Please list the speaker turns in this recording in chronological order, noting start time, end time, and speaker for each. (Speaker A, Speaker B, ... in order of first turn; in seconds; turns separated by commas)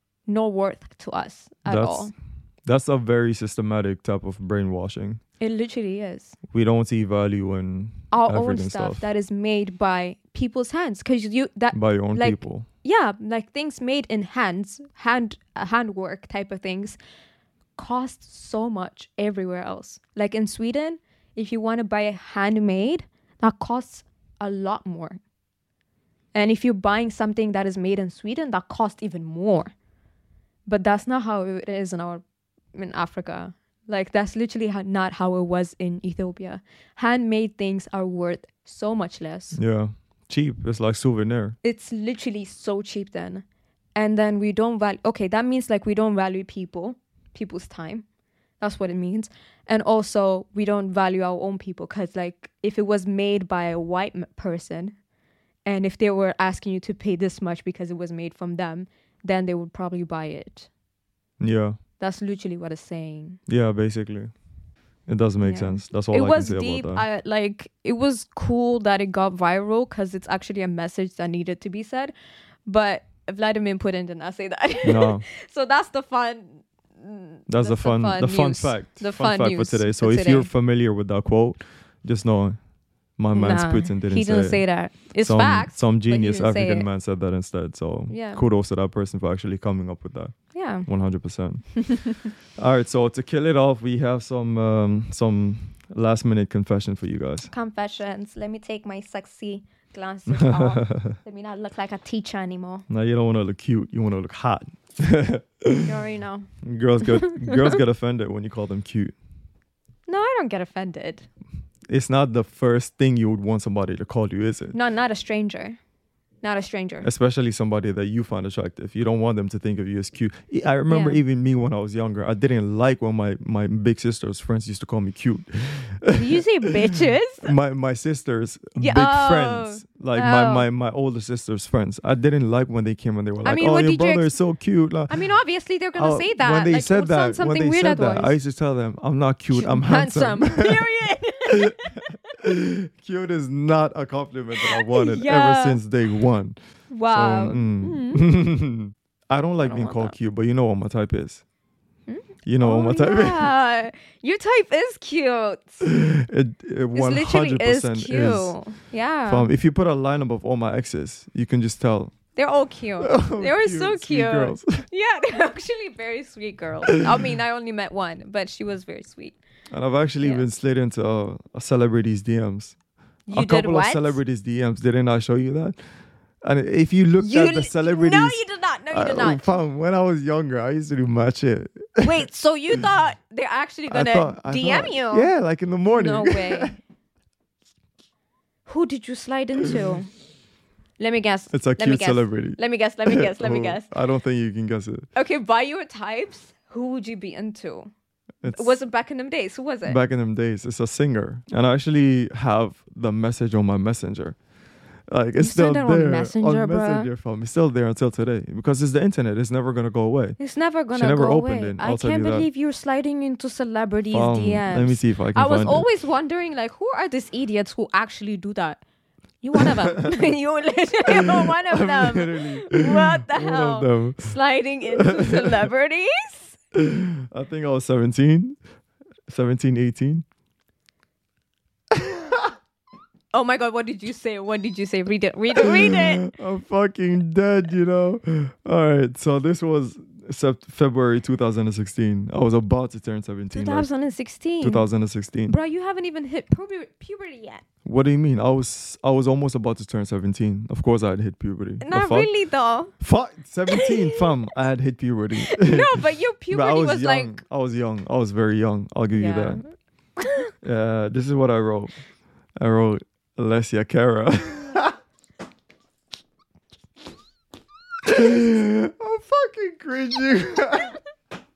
Speaker A: 0.3-2.1, Speaker B: 1.6-2.1, Speaker B: 2.6-5.2, Speaker A: 5.4-6.4, Speaker B: 6.5-9.1, Speaker A: 8.1-17.0, Speaker B: 11.7-12.7, Speaker A: 17.8-25.2, Speaker A: 26.3-29.7, Speaker A: 30.6-32.2, Speaker A: 32.7-39.6, Speaker B: 39.5-41.6, Speaker A: 41.6-43.4, Speaker A: 43.9-48.0, Speaker A: 48.6-55.0, Speaker A: 55.6-60.7, Speaker B: 61.4-61.8, Speaker A: 62.0-63.4, Speaker B: 63.5-64.3, Speaker B: 65.1-67.0, Speaker A: 65.4-72.1, Speaker A: 72.6-80.5, Speaker B: 74.8-75.2, Speaker B: 77.5-82.6, Speaker B: 83.2-84.6, Speaker A: 83.3-86.9, Speaker B: 85.2-91.8, Speaker A: 88.1-88.4, Speaker A: 90.5-90.9, Speaker A: 91.8-92.2, Speaker B: 92.5-97.5, Speaker A: 97.5-102.8, Speaker B: 100.3-101.2, Speaker B: 102.9-105.9, Speaker A: 105.8-106.5, Speaker B: 106.6-109.1, Speaker A: 107.1-107.8, Speaker A: 110.1-111.3, Speaker B: 111.9-114.8, Speaker A: 114.7-115.8, Speaker A: 116.4-117.1, Speaker B: 117.0-135.3, Speaker A: 120.9-121.2, Speaker A: 126.1-127.5, Speaker A: 128.8-130.7, Speaker A: 133.4-134.3, Speaker A: 135.1-138.4, Speaker B: 135.9-140.9, Speaker A: 139.5-141.9, Speaker B: 141.5-146.6, Speaker A: 144.6-145.8, Speaker A: 146.9-148.2, Speaker B: 147.1-151.4, Speaker A: 149.6-150.1, Speaker A: 152.1-155.8, Speaker B: 152.4-153.5, Speaker B: 155.8-158.6, Speaker A: 156.9-159.5, Speaker B: 159.2-162.2, Speaker A: 162.3-169.4, Speaker B: 163.0-164.8, Speaker B: 169.7-172.7, Speaker A: 173.3-174.2, Speaker B: 173.3-175.8, Speaker B: 176.4-182.3, Speaker A: 177.2-179.5, Speaker A: 182.0-185.3, Speaker B: 183.9-186.8, Speaker A: 185.9-186.7, Speaker A: 188.7-190.1, Speaker A: 191.0-193.9, Speaker B: 191.5-195.1, Speaker A: 195.1-197.9, Speaker B: 198.4-198.8, Speaker A: 198.4-200.0, Speaker B: 199.8-204.4, Speaker B: 205.1-210.4, Speaker A: 205.4-207.1, Speaker A: 210.4-218.8, Speaker B: 210.9-212.5, Speaker B: 214.1-215.9, Speaker A: 219.4-226.6, Speaker B: 219.6-220.2, Speaker B: 221.1-224.3, Speaker B: 224.9-225.6, Speaker B: 226.7-228.6, Speaker B: 229.3-230.2, Speaker B: 231.9-232.5, Speaker A: 233.3-236.3, Speaker B: 235.5-243.9, Speaker A: 243.5-244.8, Speaker B: 244.6-245.6, Speaker A: 245.5-247.6, Speaker B: 247.8-252.3, Speaker A: 251.8-252.9, Speaker B: 253.0-259.6, Speaker A: 253.7-254.3, Speaker A: 255.4-257.4, Speaker A: 259.1-260.5, Speaker B: 260.6-262.0, Speaker B: 262.6-264.9, Speaker B: 268.0-271.0